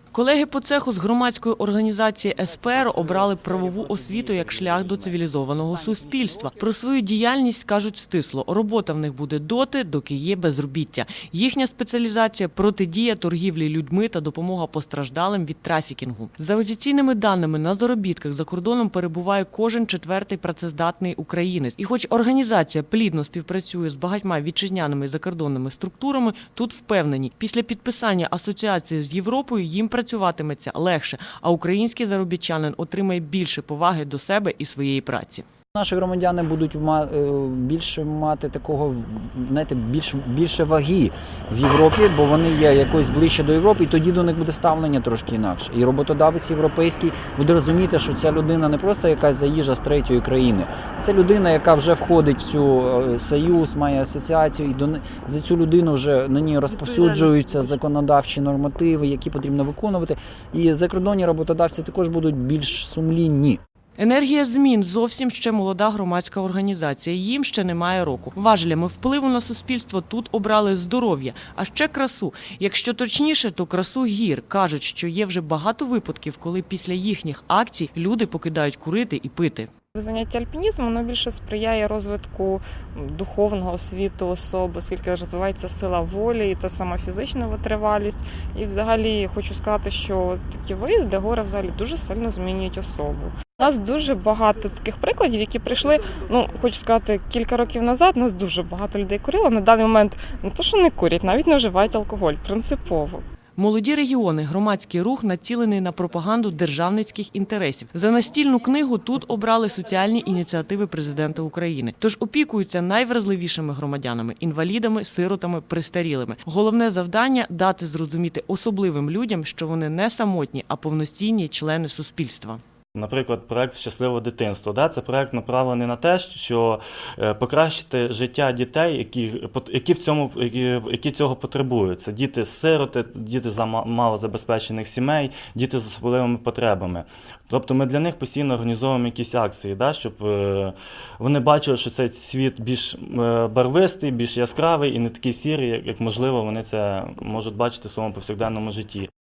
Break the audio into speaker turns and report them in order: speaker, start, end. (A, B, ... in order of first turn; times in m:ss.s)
0:00.1-0:35.4 A
0:02.5-0:05.1 B
0:05.7-0:06.5 B
0:35.7-1:03.6 B
1:04.0-1:19.7 A
1:19.9-1:43.2 C
1:43.6-2:02.6 A
2:02.9-2:29.1 D